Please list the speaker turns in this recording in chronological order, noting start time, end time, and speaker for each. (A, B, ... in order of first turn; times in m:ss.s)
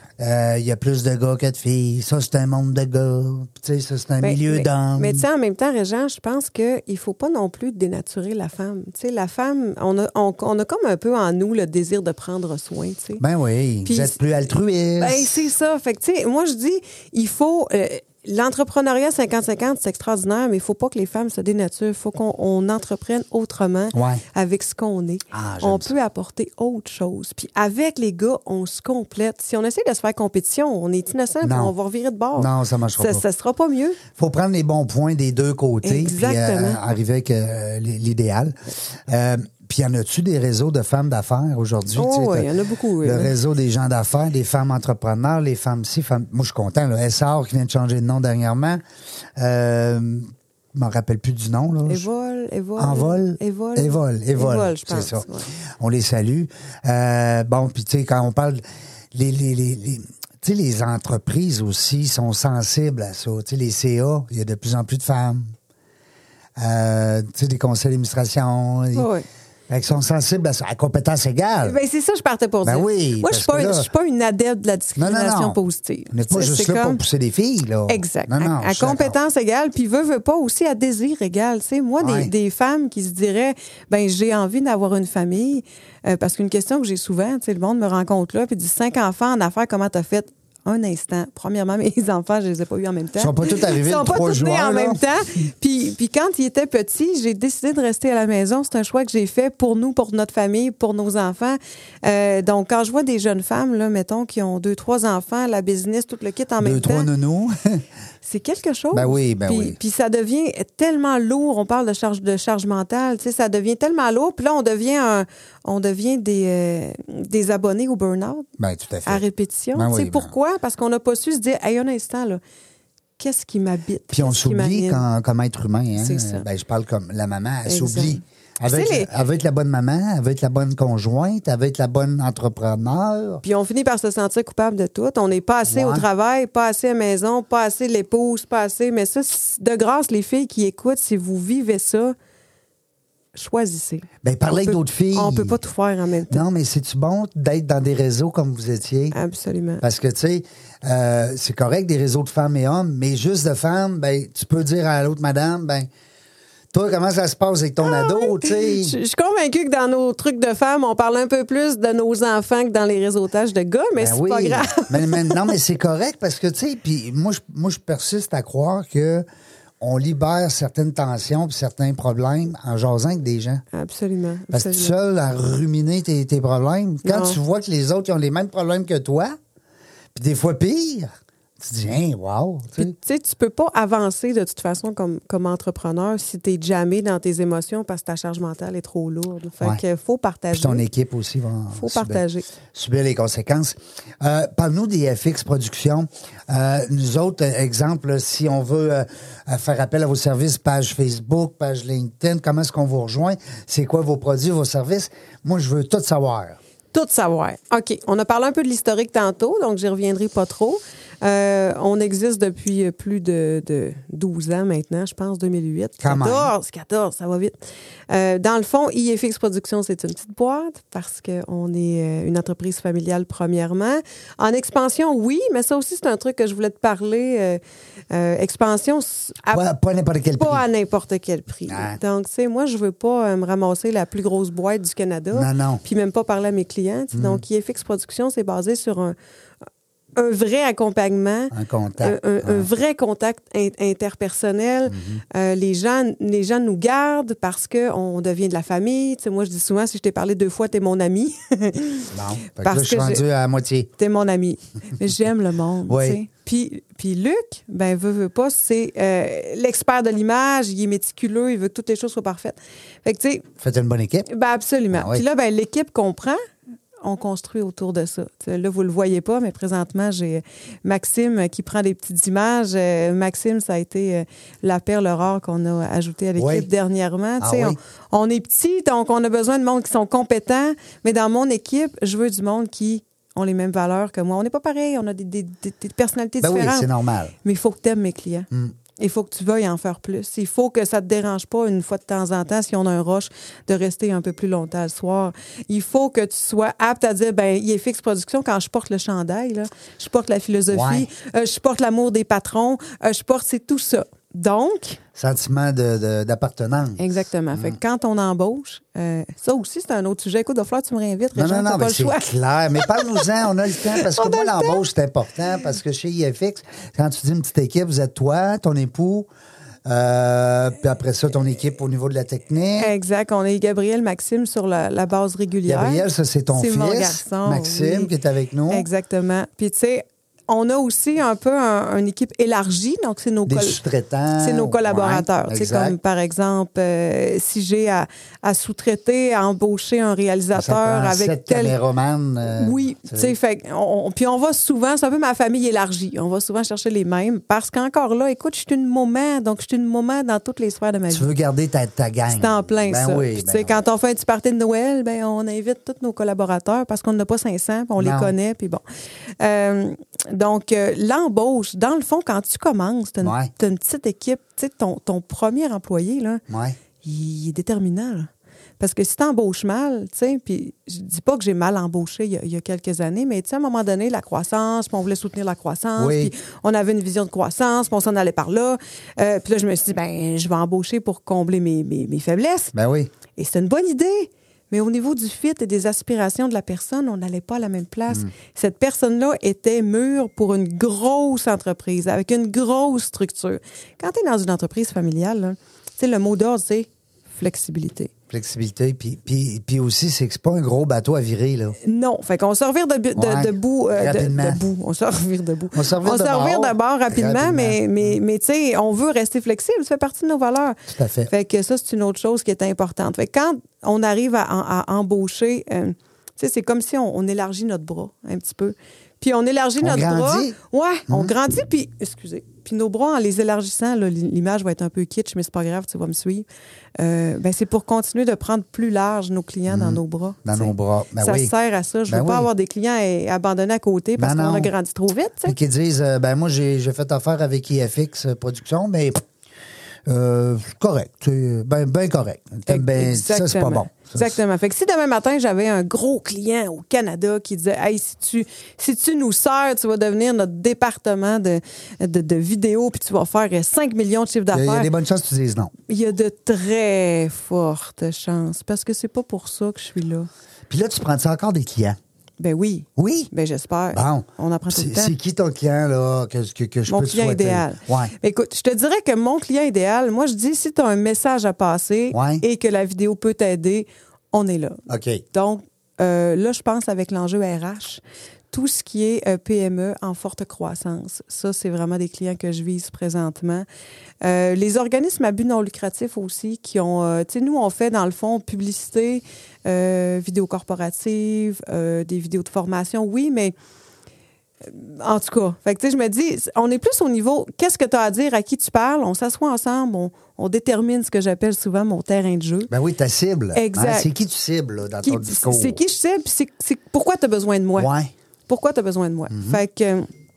0:00.2-0:05.2 A
0:04.2-0:13.2 B
0:13.2-0:15.4 A
0:13.9-0:14.2 B
0:15.0-0:34.0 B
0:23.9-0:24.2 A
0:25.3-0:25.9 A
0:31.4-0:31.7 A
0:32.4-0:33.2 A
0:34.1-0:42.5 A
0:35.8-0:36.8 B
0:42.0-0:43.3 B
0:43.0-0:48.8 A
0:49.4-0:52.0 A
0:51.9-0:55.5 B
0:52.8-1:05.5 A
1:06.6-1:09.1 A
1:08.9-1:09.2 B
1:09.7-1:11.8 A
1:11.6-1:17.0 B
1:12.6-1:13.9 A
1:15.0-1:15.6 A
1:16.1-1:19.2 A
1:17.9-1:47.1 B
1:22.0-1:22.3 A
1:33.2-1:35.0 A
1:46.6-1:47.8 A
1:48.2-1:58.5 B
1:48.9-1:49.8 A
1:58.6-1:59.2 A
1:59.1-2:02.4 B
1:59.8-2:00.3 A
2:03.2-2:05.0 B
2:04.1-2:13.4 A
2:06.0-2:06.4 B
2:07.7-2:09.1 B
2:13.4-2:22.2 B
2:15.7-2:16.0 A
2:23.3-2:24.1 B
2:24.2-2:25.6 A
2:24.6-2:26.4 B
2:26.3-2:29.2 A
2:29.1-2:29.8 B
2:29.8-2:35.9 A
2:36.7-2:39.0 A
2:37.8-2:45.4 B
2:44.0-2:49.2 A
2:49.8-2:53.6 A
2:53.7-2:55.0 B
2:54.5-2:59.4 A
2:57.0-2:57.4 B
3:00.1-3:03.0 A
3:02.8-3:10.9 B
3:10.5-3:12.2 A
3:11.7-3:12.4 B
3:12.7-3:26.6 A
3:26.9-3:37.6 B
3:36.0-3:36.5 A
3:38.1-3:49.6 B
3:49.5-3:50.6 A
3:50.4-3:59.2 B
3:51.7-3:52.0 A
3:55.3-3:55.8 A
3:57.1-3:57.4 A
4:00.2-4:13.2 B
4:01.5-4:02.7 A
4:04.9-4:05.2 A
4:12.1-4:13.9 A
4:14.0-4:23.5 B
4:15.9-4:16.2 A
4:23.6-4:24.3 A
4:24.3-4:26.4 B
4:24.9-4:25.2 A
4:27.0-4:46.9 B
4:36.4-4:36.7 A
4:37.4-4:37.8 A
4:46.4-4:47.3 A
4:47.4-5:05.0 B
5:00.7-5:01.1 A
5:05.2-5:07.0 A
5:07.0-5:12.3 B
5:11.4-5:19.3 A
5:12.8-5:13.3 B
5:13.9-5:14.8 B
5:19.9-5:22.9 A
5:22.8-5:28.1 B
5:25.7-5:28.9 A
5:28.7-5:33.8 B
5:33.5-5:36.0 A
5:34.4-5:41.8 B
5:40.5-5:43.4 A
5:42.6-5:51.3 B
5:51.1-5:53.8 A
5:52.3-5:58.8 B
5:58.0-5:58.3 A
5:59.4-6:06.4 B
6:03.2-6:03.5 A
6:06.5-6:06.8 A
6:07.0-6:08.3 B
6:08.8-6:22.8 B
6:16.0-6:16.3 A
6:22.7-6:23.1 A
6:23.4-6:38.1 B
6:38.3-6:41.8 A
6:41.8-7:06.5 B
6:43.2-6:44.6 A
6:45.7-6:48.2 A
6:50.9-6:51.3 A
6:59.8-7:00.6 A
7:07.0-7:15.6 B
7:09.7-7:11.5 A
7:12.1-7:12.5 A
7:14.2-7:14.7 A
7:15.4-7:19.2 A
7:20.1-7:24.4 A
7:22.7-7:34.9 B
7:34.5-7:35.7 A
7:35.9-7:40.3 B
7:40.7-7:42.0 A
7:42.4-7:45.2 B
7:43.0-7:43.3 A
7:43.9-7:48.1 A
7:46.9-7:54.8 B
7:52.1-7:52.4 A
7:54.9-7:55.2 A
7:55.3-8:03.7 B
8:04.2-8:13.6 B
8:14.6-8:22.7 B
8:22.7-8:25.8 A
8:23.5-8:24.1 B
8:25.0-8:27.9 B
8:27.8-8:28.1 A
8:28.5-8:30.1 B
8:29.3-8:29.6 A